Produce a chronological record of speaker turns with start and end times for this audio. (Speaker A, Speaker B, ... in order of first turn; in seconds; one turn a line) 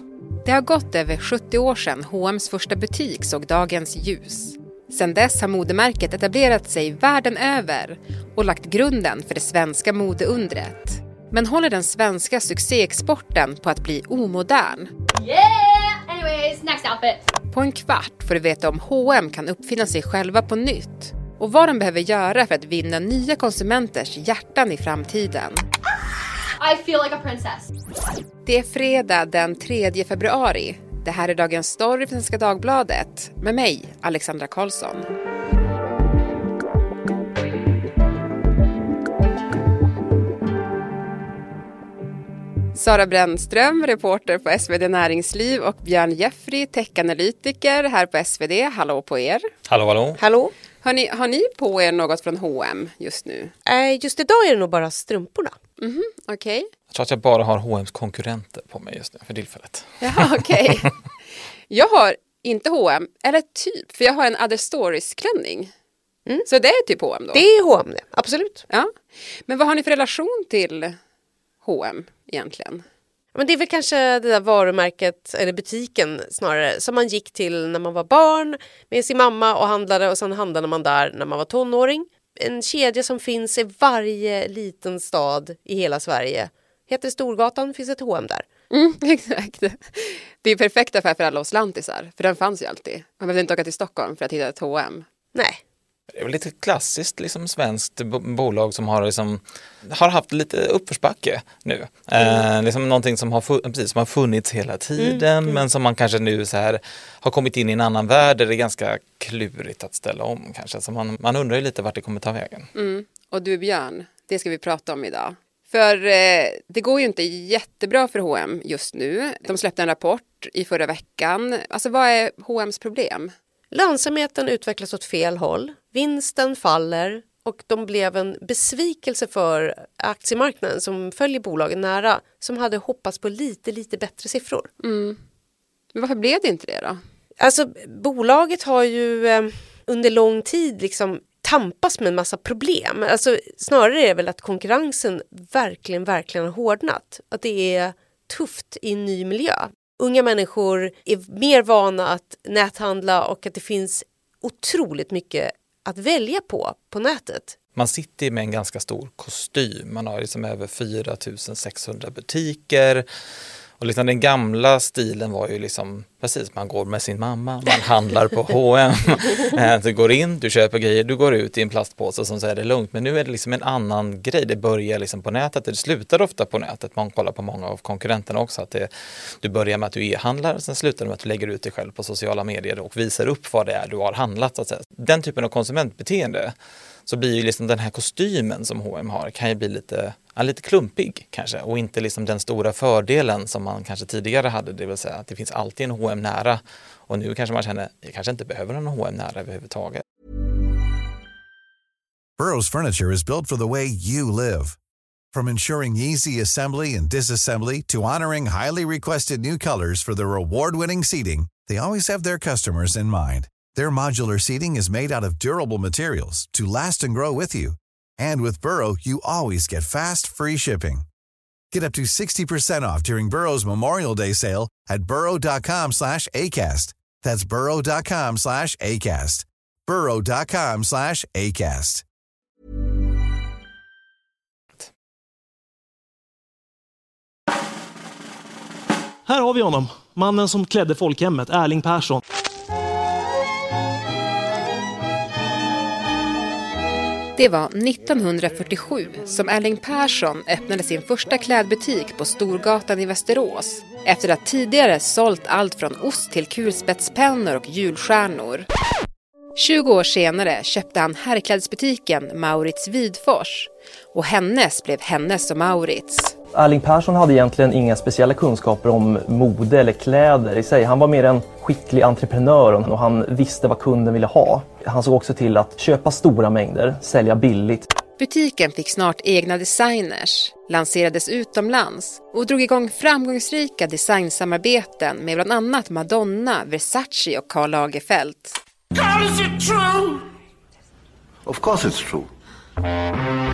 Speaker A: 0.4-14.9
Speaker B: 15.2-17.2
Speaker A: 17.5-25.6
Speaker B: 26.6-27.6
Speaker A: 28.4-35.0
Speaker A: 42.7-49.5
Speaker C: 49.7-50.2
Speaker D: 50.2-50.5
Speaker A: 50.8-53.5
Speaker D: 53.6-55.5
Speaker A: 55.8-56.7
Speaker C: 56.9-60.1
Speaker A: 60.0-60.9
Speaker A: 61.7-65.7
Speaker A: 66.4-67.4
Speaker D: 67.3-68.6
Speaker A: 68.7-71.0
Speaker A: 71.6-72.8
Speaker D: 73.3-88.4
Speaker A: 88.7-95.0
Speaker C: 96.1-112.7
Speaker D: 105.0-105.6
Speaker A: 112.7-123.3
Speaker D: 123.7-134.7
Speaker A: 134.8-135.2
Speaker A: 135.9-137.0
Speaker D: 137.4-157.5
Speaker C: 157.7-163.0
Speaker C: 163.8-178.9
Speaker C: 179.4-186.5
Speaker C: 187.1-200.0
Speaker E: 202.4-204.8
Speaker E: 205.3-221.1
Speaker E: 221.7-232.0
Speaker F: 239.2-242.2
Speaker A: 247.3-258.7
Speaker A: 259.6-266.3
Speaker G: 266.6-277.7
Speaker A: 278.2-288.6
Speaker H: 289.0-290.1
Speaker H: 291.4-292.3